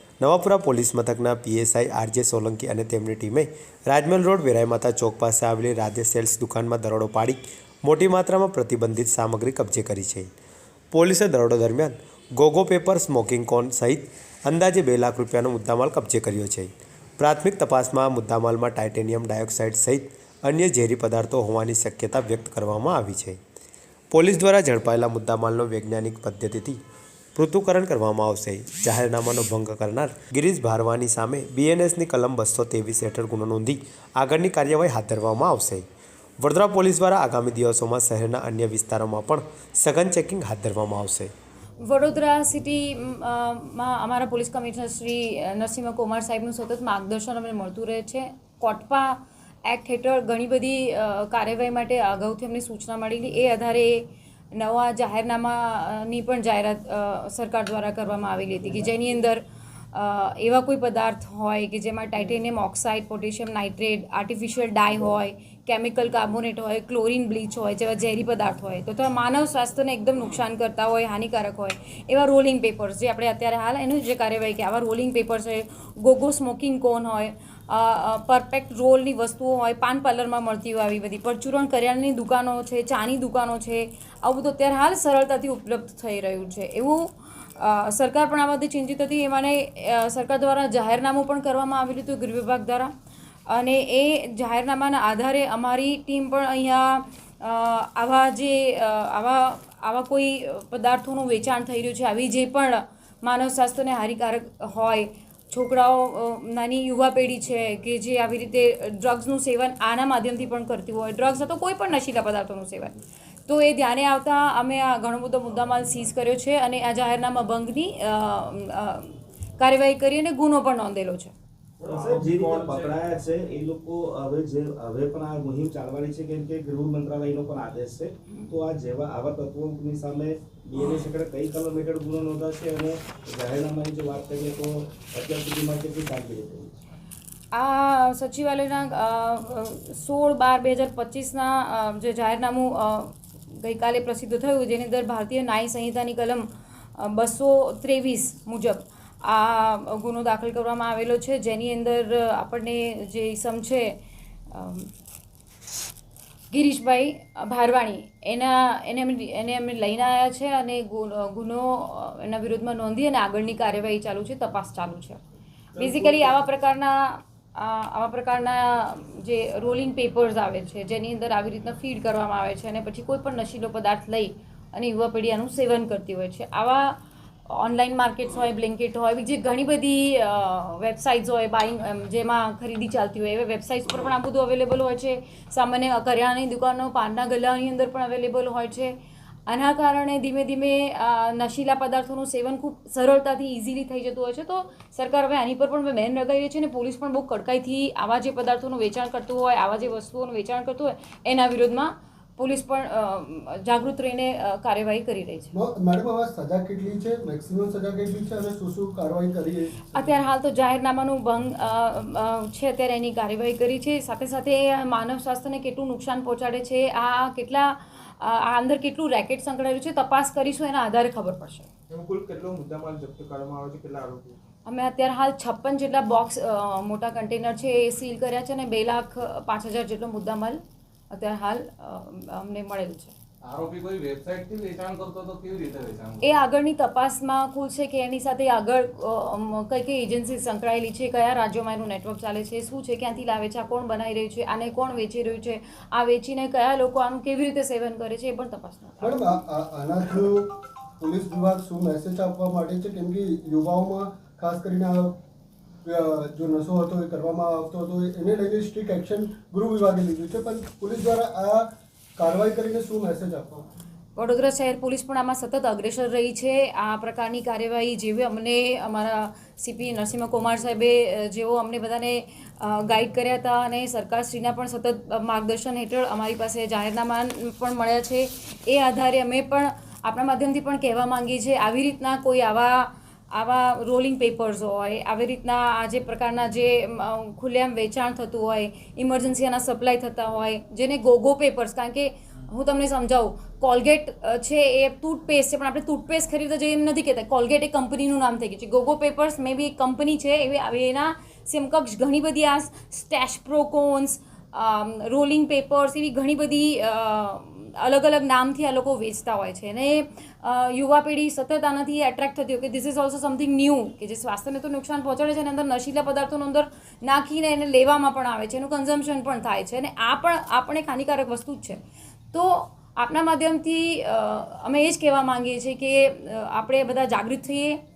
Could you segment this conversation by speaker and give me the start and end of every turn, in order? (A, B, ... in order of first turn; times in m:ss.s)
0:00.2-0:10.3 A
0:10.9-0:23.4 A
0:24.1-0:26.8 A
0:27.3-0:35.8 A
0:36.4-0:41.3 A
0:41.8-1:32.9 B
1:33.5-2:01.3 B
2:01.8-2:03.0 C
2:01.8-2:16.8 D
2:17.5-2:34.9 B
2:36.5-2:45.2 B
2:45.8-3:08.9 B
2:45.9-2:46.3 D
3:09.5-3:25.5 B
3:25.5-3:29.8 E
3:29.9-3:41.7 B
3:41.9-3:44.4 F
3:44.6-3:50.6 B
3:51.1-3:53.1 B
3:53.4-3:56.4 C
3:56.2-4:09.4 B
4:09.0-4:15.2 E
4:15.8-4:23.7 E
4:24.2-5:21.8 B
5:22.3-5:27.8 B